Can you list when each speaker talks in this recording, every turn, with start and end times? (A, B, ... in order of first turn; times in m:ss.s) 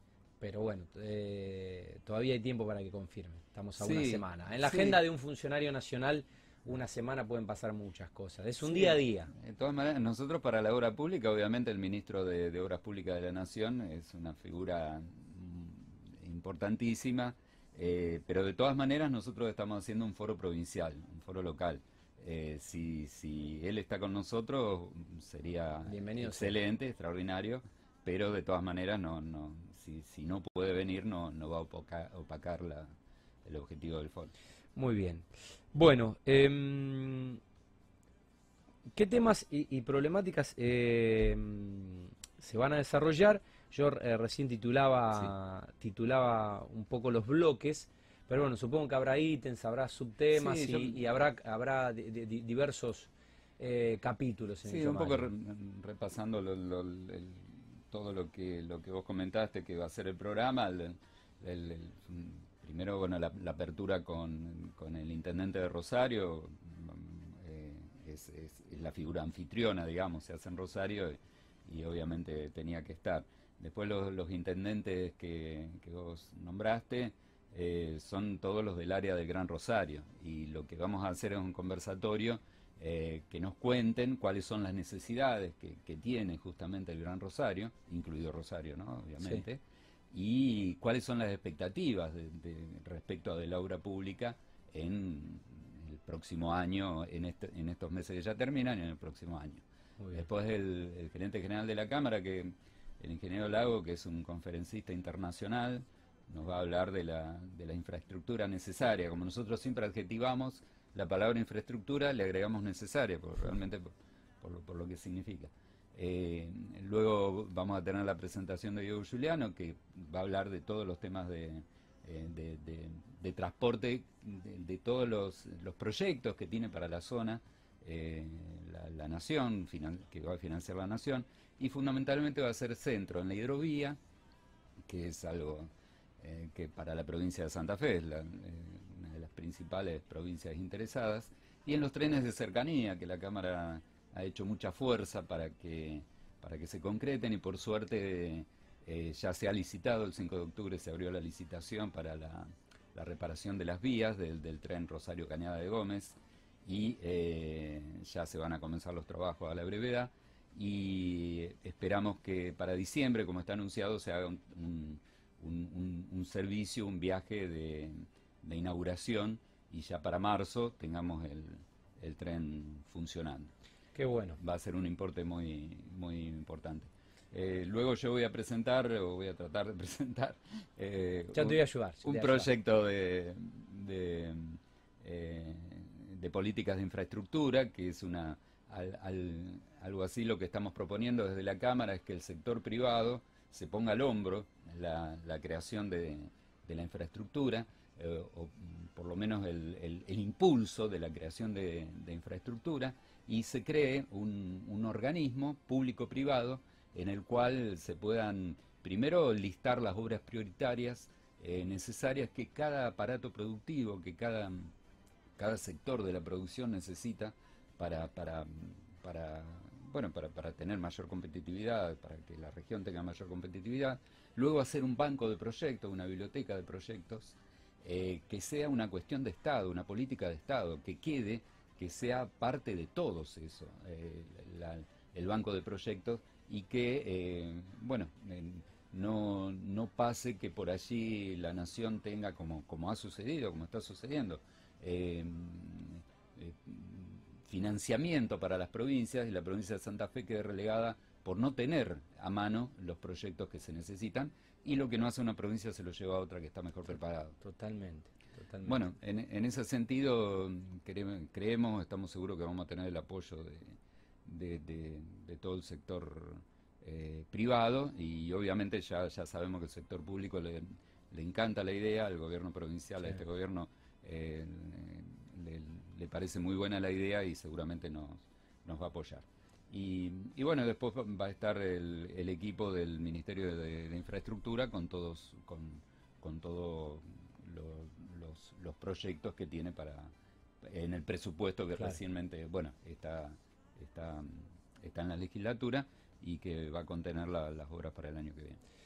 0:00.4-0:09.3 A
0:03.8-0:05.0 B
0:08.6-0:32.9 B
0:25.8-0:26.6 A
0:33.4-0:34.3 B
0:34.8-0:37.4 A
0:38.9-0:55.3 A
0:50.3-0:51.0 B
0:54.6-1:53.9 B
1:40.0-1:40.2 A
1:54.4-2:14.0 B
2:14.9-2:53.5 B
2:54.0-2:54.4 A
2:54.4-3:34.7 B
3:01.3-3:02.5 A
3:35.4-4:17.4 B
4:17.4-4:18.8 A
4:18.6-4:58.6 B